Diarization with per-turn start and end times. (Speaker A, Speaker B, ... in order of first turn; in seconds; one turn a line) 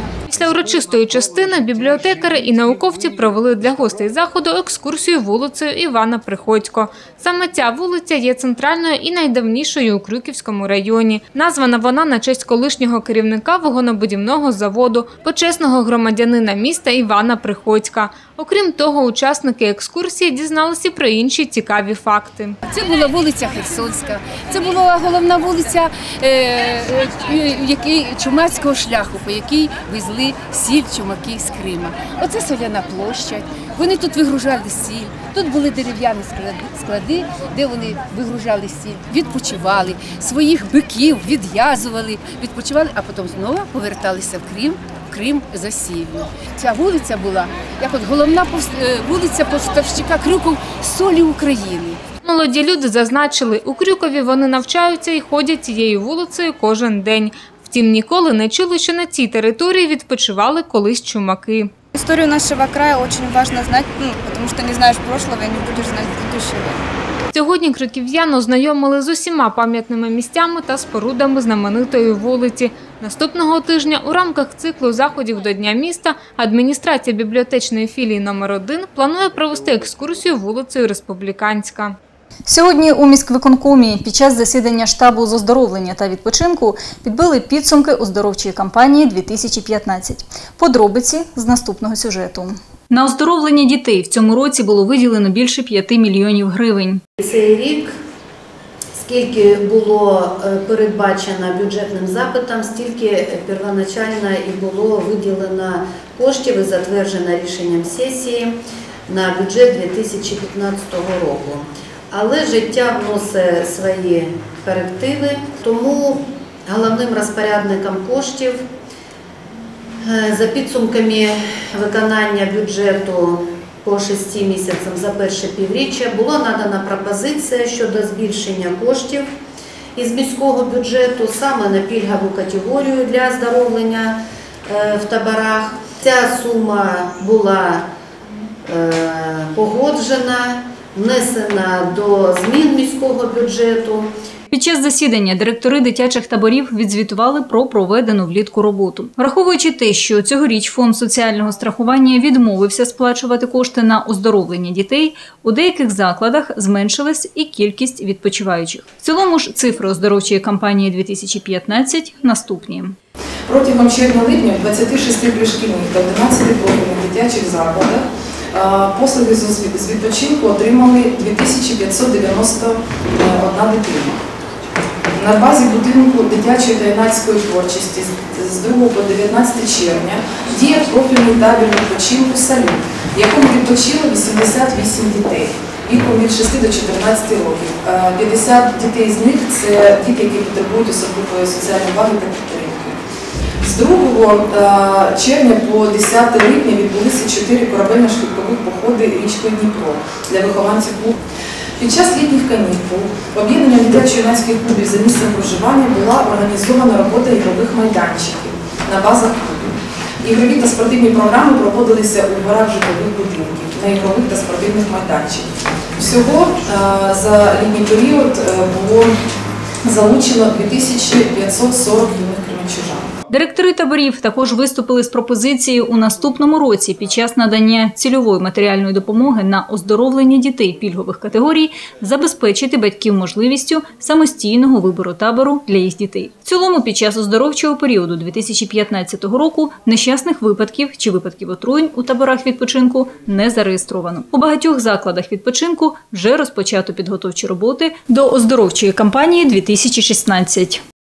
Speaker A: 0.3-22.6
Speaker B: 22.7-52.0
Speaker A: 52.2-61.7
Speaker C: 62.0-66.7
Speaker A: 67.3-82.0
Speaker D: 82.5-97.0
Speaker E: 97.2-97.9
Speaker E: 99.0-108.5
Speaker E: 109.1-118.6
Speaker E: 120.0-129.2
Speaker E: 129.9-137.8
Speaker E: 138.7-144.1
Speaker D: 144.5-162.9
Speaker F: 163.5-174.2
Speaker F: 175.1-193.0
Speaker F: 193.6-201.1
Speaker F: 201.8-219.2
Speaker F: 219.8-223.1
Speaker D: 223.3-250.8